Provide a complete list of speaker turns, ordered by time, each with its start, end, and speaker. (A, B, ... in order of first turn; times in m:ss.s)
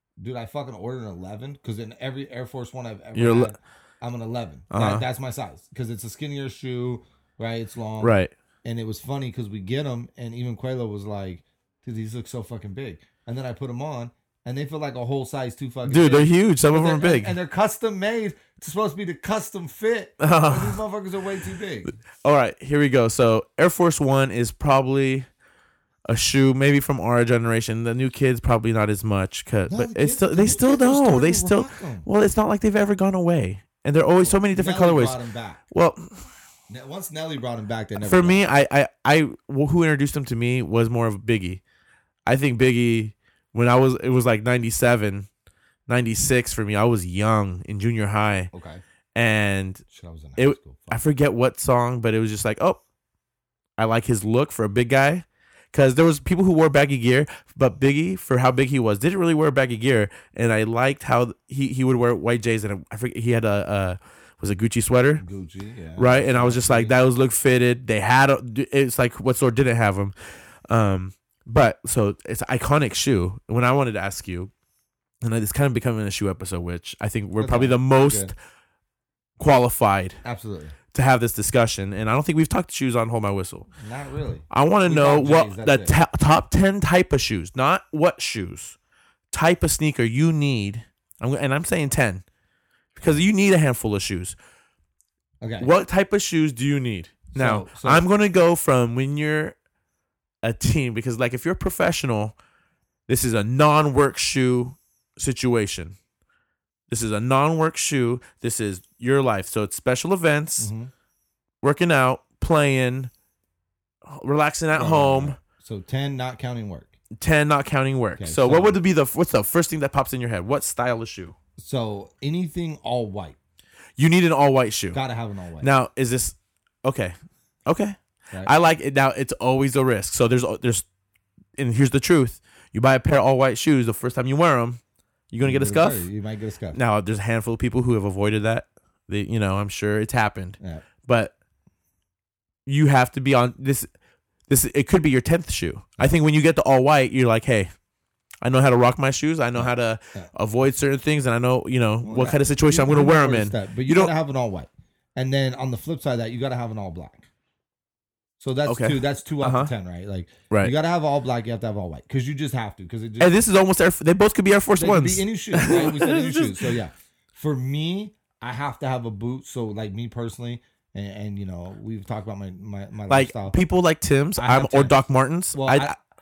0:00.2-0:22.0 A
0:03.1-0:03.5 B
0:04.7-0:05.0 B
0:08.0-0:08.3 B
0:15.8-0:17.3 B
0:20.2-0:20.8 B
0:22.2-0:25.3 B
0:26.1-0:35.2 B
0:29.7-0:32.1 A
0:34.2-0:35.6 A
0:35.7-0:36.2 B
0:36.7-0:38.4 A
0:38.0-0:41.6 B
0:42.2-0:45.3 B
0:45.9-0:48.5 B
0:48.5-0:48.8 A
0:49.1-0:49.8 B
0:49.9-0:51.0 A
0:50.4-0:52.8 B
0:53.8-1:05.2 B
1:05.2-1:06.9 A
1:06.0-1:10.1 B
1:10.7-1:14.5 B
1:15.2-1:18.3 B
1:17.4-1:18.3 A
1:19.4-1:20.2 B
1:20.2-1:20.8 A
1:20.9-1:23.7 B
1:23.7-1:25.9 A
1:24.5-1:28.8 B
1:29.3-1:32.2 B
1:33.0-1:33.2 A
1:33.0-1:34.4 B
1:35.4-1:35.7 A
1:35.6-1:39.6 B
1:37.3-1:38.0 A
1:40.4-1:42.3 B
1:43.1-1:46.0 B
1:46.9-1:50.7 B
1:50.6-1:50.9 A
1:51.6-1:53.1 B
1:54.0-1:55.4 B
1:54.8-1:57.0 A
1:57.2-2:01.3 B
1:58.2-1:58.8 A
2:01.6-2:03.4 A
2:04.0-2:05.0 B
2:04.9-2:05.7 A
2:05.6-2:07.1 B
2:07.7-2:10.8 B
2:11.6-2:14.8 B
2:15.3-2:16.1 B
2:15.4-2:16.8 A
2:16.7-2:21.3 B
2:20.6-2:20.8 A
2:22.6-2:23.9 B
2:24.5-2:27.7 B
2:28.4-2:34.1 B
2:29.6-2:30.3 A
2:32.0-2:37.3 A
2:38.4-2:43.4 A
2:38.7-2:39.7 B
2:43.2-2:46.7 B
2:44.8-2:53.6 A
2:53.1-2:55.9 B
2:54.4-2:55.0 A
2:55.5-2:55.9 A